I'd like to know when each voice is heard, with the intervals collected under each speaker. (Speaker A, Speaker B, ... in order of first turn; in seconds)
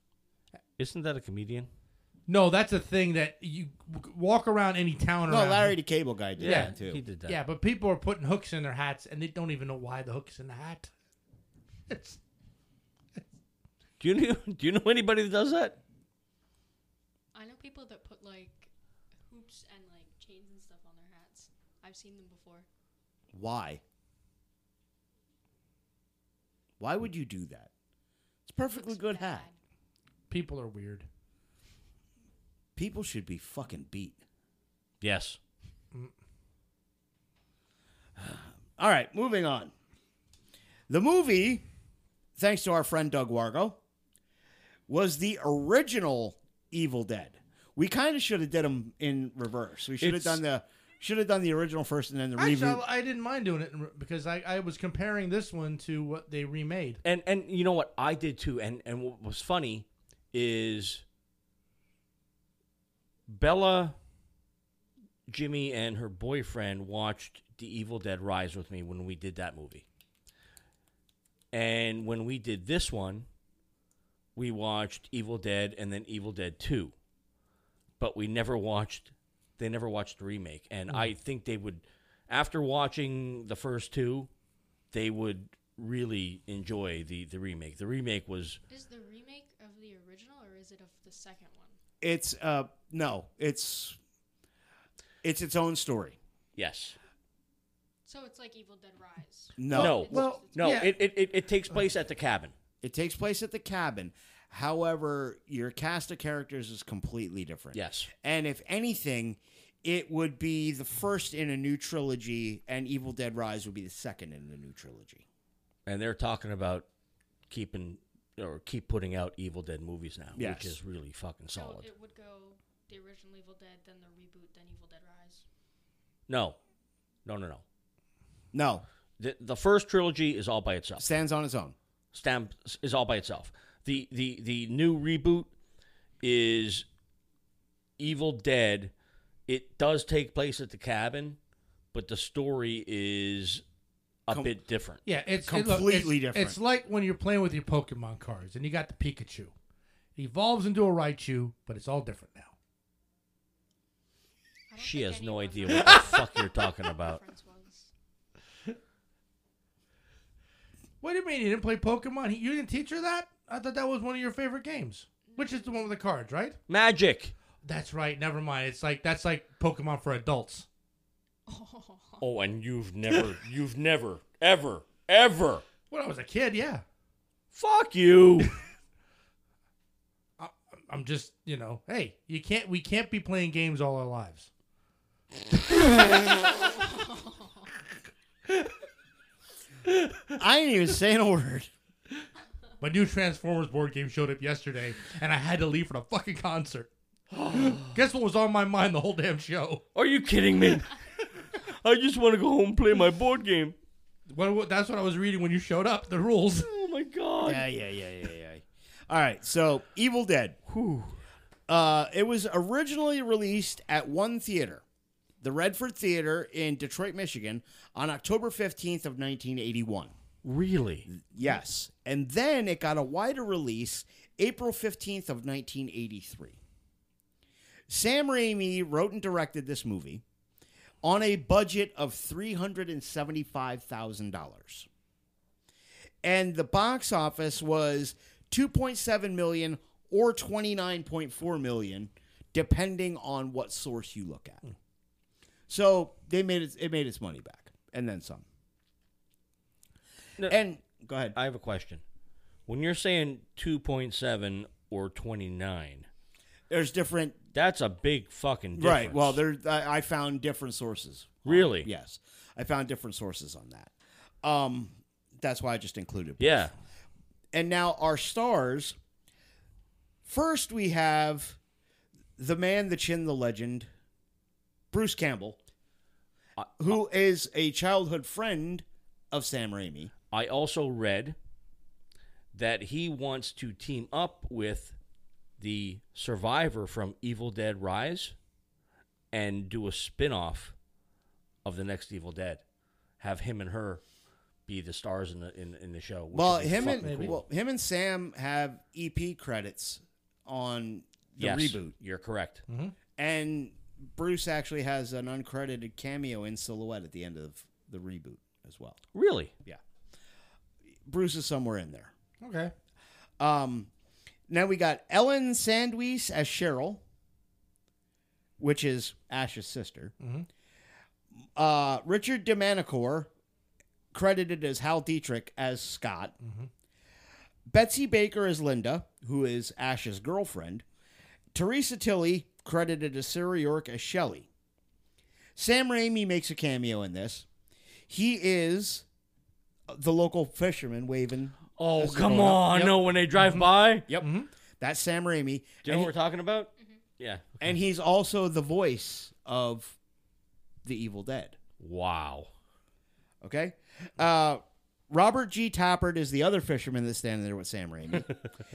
Speaker A: 0.8-1.7, 6.4-7.4, 14.0-15.8, 35.0-35.4, 50.0-50.4, 57.0-61.0, 63.3-64.0, 65.3-69.8, 71.5-73.3, 74.4-76.9, 78.0-84.3, 84.9-88.6, 96.6-97.0, 99.8-102.5, 107.7-108.1, 115.9-116.9, 117.5-121.9, 126.3-126.6, 127.2-127.6, 129.2-131.1, 132.1-135.5, 136.2-136.9, 138.0-138.9, 139.5-141.4, 141.9-143.6, 144.3-145.0, 154.8-157.2, 166.7-167.3, 172.2-175.6, 177.5-178.5, 197.3-198.0, 199.9-201.0, 201.5-203.8, 206.5-207.7, 210.7-211.2, 220.4-221.1, 251.3-252.0, 252.7-256.1, 257.5-259.4, 261.5-261.9, 266.4-266.7, 280.3-281.4, 282.5-285.0, 285.6-288.4, 289.3-290.7, 291.6-292.6, 293.2-294.0, 294.7-297.4, 301.4-302.6, 309.1-309.5, 341.8-344.1, 345.8-347.5, 351.8-352.5
Speaker B: 2.3-5.8, 6.4-6.7, 7.2-10.9, 11.9-12.2, 30.3-31.1, 52.4-57.0, 99.8-100.9, 145.1-149.5, 150.2-152.5, 155.7-156.2, 161.0-166.6, 167.6-170.7, 175.9-176.8, 180.4-184.5, 189.9-190.3, 192.8-196.9, 197.5-199.8, 204.3-206.7, 296.8-297.4, 302.7-302.9, 312.4-312.7, 320.2-320.5, 326.4-326.7, 342.7-343.7, 344.2-344.5
Speaker C: 5.3-7.0, 23.3-23.8, 26.8-27.7, 28.5-29.5, 32.8-34.2, 38.2-39.7, 40.9-41.6, 42.4-43.8, 44.9-52.8, 92.0-94.0, 95.2-96.2, 99.6-100.3, 102.8-115.2, 120.4-120.8, 128.5-128.8, 131.0-131.8, 145.5-146.6, 190.4-191.7, 207.4-210.6, 211.7-214.8, 215.4-220.1, 221.1-226.6, 227.9-230.2, 231.0-234.9, 236.2-244.6, 245.7-248.4, 250.4-251.4, 256.7-257.4, 258.8-266.7, 267.5-269.0, 270.3-271.6, 272.4-273.9, 274.9-275.6, 276.8-280.1, 296.3-301.9, 303.2-309.0, 311.1-312.1, 313.4-313.9, 314.5-317.0, 318.6-320.1, 321.6-323.3, 324.1-326.3, 327.7-330.8, 331.5-334.5, 335.6-337.5, 338.1-339.1, 339.9-342.9, 344.1-346.1, 347.6-350.0, 350.8-351.6, 353.4-358.3
Speaker D: 17.3-18.7, 19.3-22.7, 28.7-29.6, 88.7-91.8, 98.0-100.9, 121.5-125.5, 154.7-157.9, 165.3-165.9, 171.5-172.2, 186.8-187.6